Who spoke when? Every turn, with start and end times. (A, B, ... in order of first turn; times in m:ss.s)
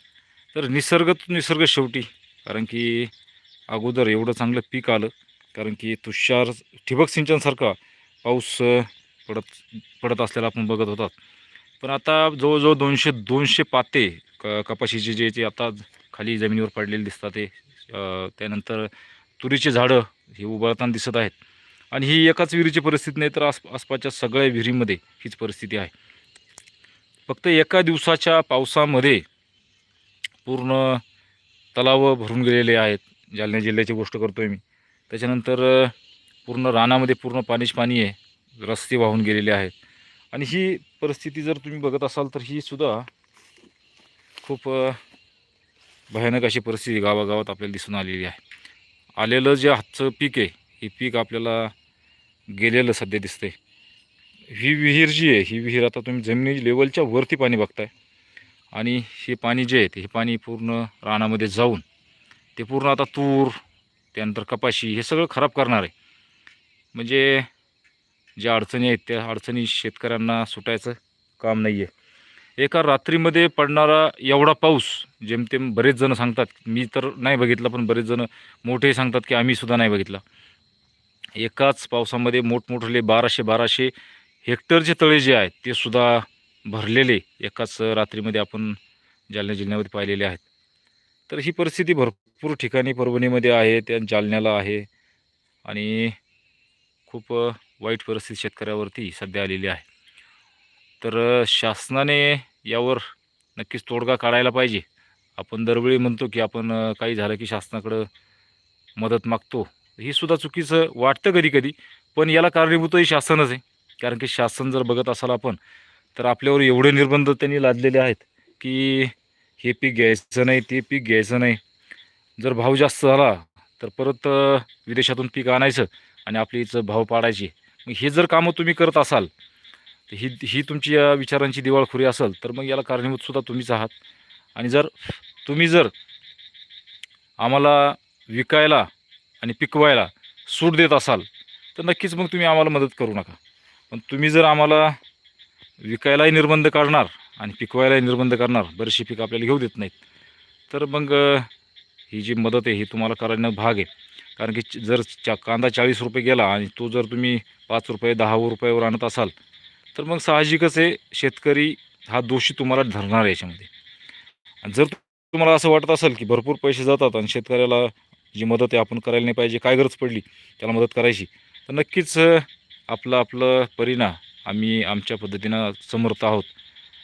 0:00.5-0:03.1 A
0:03.7-0:11.1 A
0:11.8-0:21.3 A
0:21.9-0:25.9 A
0:27.3-0:29.2 A
0:30.4-0:31.0 A
0:31.7-0:35.9 A
0:36.4-0:39.7 A
0:40.3-0:43.1 A
0:44.4-0:45.0 A
0:46.1-0:48.4 A
0:49.2-0:51.7 A
0:52.5-0:53.6 A
0:54.5-0:57.9 A
0:58.7-1:01.8 A
1:02.6-1:03.6 A
1:04.1-1:05.9 A
1:06.9-1:07.5 A
1:08.4-1:11.9 A
1:12.6-1:20.2 A
1:21.4-1:23.9 A
1:24.4-1:28.8 A
1:29.3-1:30.4 A
1:31.3-1:34.9 A
1:35.6-1:36.2 A
1:37.1-1:39.8 A
1:41.0-1:43.0 A
1:43.6-1:44.8 A
1:45.4-1:48.1 A
1:49.0-1:55.6 A
1:56.2-2:01.6 A
2:02.4-2:09.3 A
2:10.1-2:13.9 A
2:14.6-2:15.9 A
2:17.4-2:18.9 A
2:19.4-2:23.4 A
2:23.9-2:25.0 A
2:25.8-2:29.9 A
2:30.7-2:31.5 A
2:32.1-2:39.3 A
2:39.9-2:43.7 A
2:44.6-2:56.5 A